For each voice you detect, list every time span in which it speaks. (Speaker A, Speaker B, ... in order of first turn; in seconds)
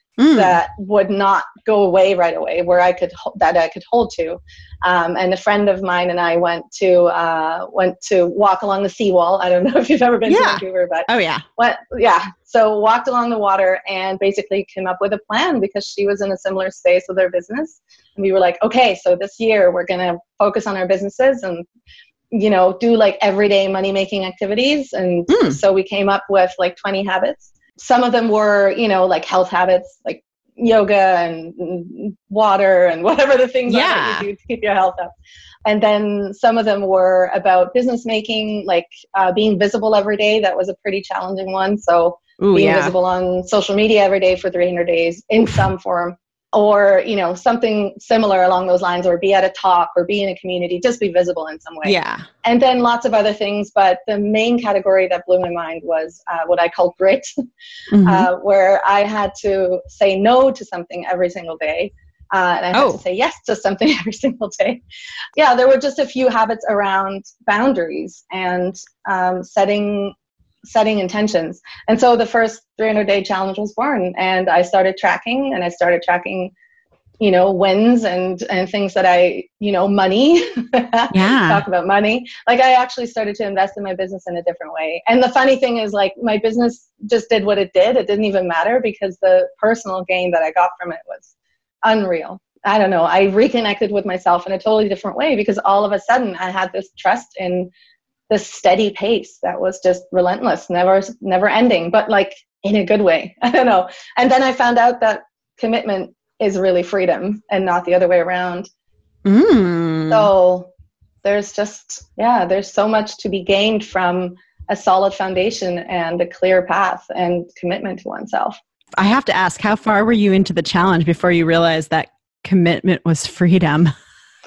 Speaker A: 0.2-0.6, 10.3-11.4, 25.3-25.6, 33.7-34.3, 42.4-42.9, 51.8-52.3, 57.9-58.3, 62.7-63.0, 81.1-81.6, 109.2-110.3, 119.0-123.9
Speaker B: 0.3-21.6, 22.3-57.3, 58.0-64.8, 65.3-76.5, 77.2-91.3, 91.8-97.7, 98.3-108.7, 110.1-110.7, 111.2-118.6